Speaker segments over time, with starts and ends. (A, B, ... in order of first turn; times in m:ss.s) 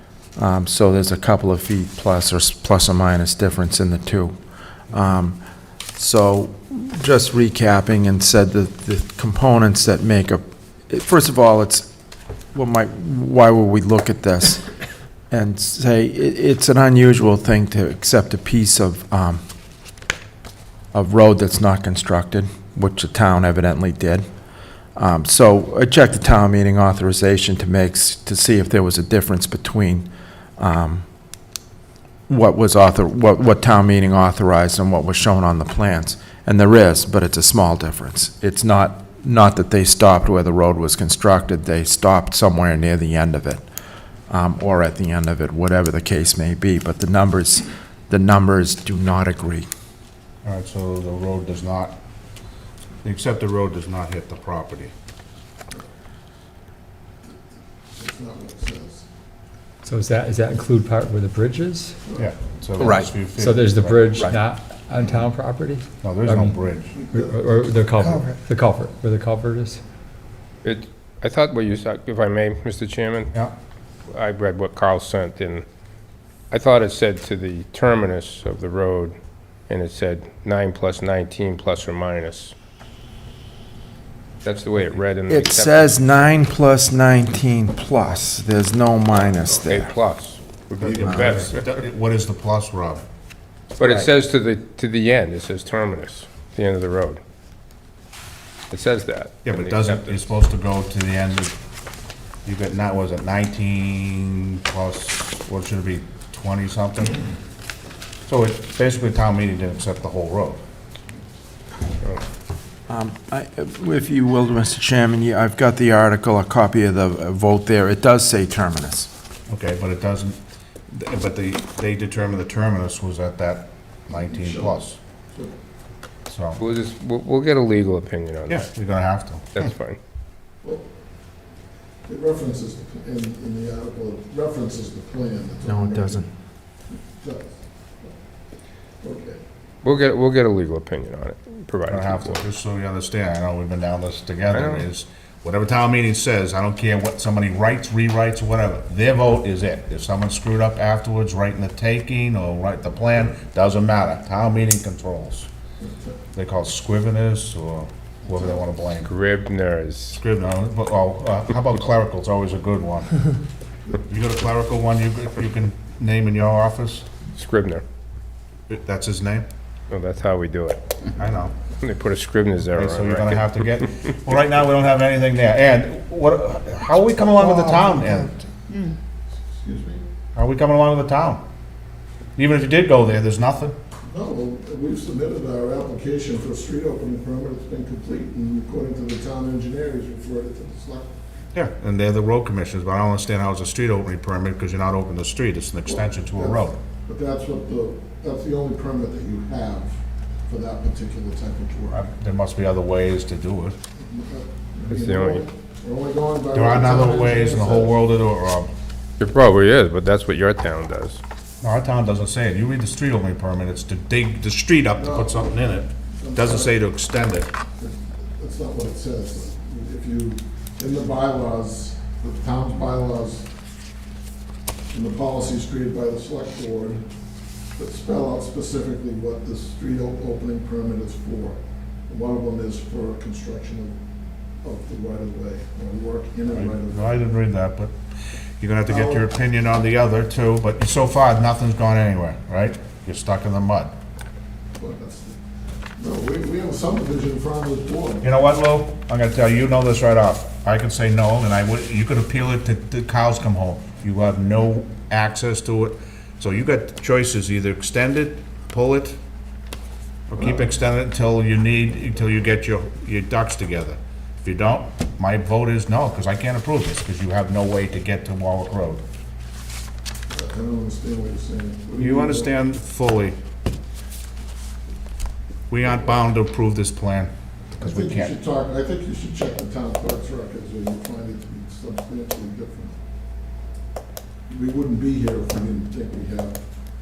0:00.4-0:04.4 A
0:04.9-0:05.4 A
0:06.0-0:11.9 A
0:12.5-0:14.6 A
0:15.3-0:19.4 A
0:20.9-0:24.2 A
0:25.0-0:30.0 A
0:30.6-0:31.0 A
0:32.3-0:43.6 A
0:44.3-0:49.7 A
0:50.4-0:52.0 B
0:53.0-0:54.9 B
0:58.0-0:59.0 C
0:59.8-1:02.0 D
1:02.2-1:04.3 B
1:03.4-1:06.5 D
1:06.0-1:06.9 B
1:07.0-1:07.4 C
1:07.1-1:09.8 D
1:10.6-1:13.3 E
1:14.1-1:15.7 E
1:16.5-1:19.2 E
1:19.7-1:22.5 E
1:24.4-1:26.0 E
1:25.3-1:29.9 A
1:29.5-1:31.7 E
1:30.8-1:33.0 B
1:31.1-1:31.5 A
1:33.8-1:37.2 E
1:33.8-1:34.1 A
1:38.7-1:40.3 E
1:39.4-1:41.5 B
1:42.4-1:47.2 B
1:48.3-1:50.6 B
1:52.9-1:59.1 A
1:59.5-2:00.4 B
2:00.9-2:05.0 B
2:04.1-2:05.5 C
2:06.3-2:06.6 B
2:06.6-2:08.6 E
2:08.5-2:09.5 B
2:09.5-2:10.0 E
2:12.1-2:16.3 C
2:15.6-2:16.3 A
2:17.1-2:18.1 C
2:19.0-2:19.4 C
2:19.8-2:22.4 E
2:21.9-2:35.5 B
2:24.5-2:24.9 E
2:35.8-2:36.2 C
2:36.3-2:39.1 B
2:39.0-2:40.2 E
2:40.1-2:43.1 B
2:44.1-2:47.0 B
2:47.4-2:47.8 E
2:48.7-2:49.5 B
2:49.9-2:50.8 E
2:51.2-2:51.5 B
2:51.8-2:53.8 E
2:52.8-2:58.3 B
2:59.5-3:00.0 C
3:00.3-3:01.4 B
3:02.4-3:03.8 B
3:04.1-3:11.1 C
3:11.5-3:16.8 B
3:15.8-3:22.0 C
3:21.9-3:23.8 B
3:24.0-3:28.0 C
3:24.9-3:25.4 E
3:26.5-3:28.7 B
3:29.2-3:31.2 E
3:31.6-3:37.5 B
3:35.0-3:36.8 C
3:37.8-3:43.5 C
3:44.9-3:47.0 C
3:47.8-3:53.9 C
3:54.6-3:57.3 C
3:56.5-3:57.9 B
3:58.6-4:03.9 B
3:58.9-3:59.2 C
4:04.8-4:05.4 C
4:06.0-4:08.3 C
4:08.2-4:19.2 B
4:20.3-4:29.0 B
4:30.3-4:32.5 C
4:32.0-4:33.4 B
4:35.7-4:38.3 B
4:37.8-4:43.0 C
4:44.5-4:46.6 C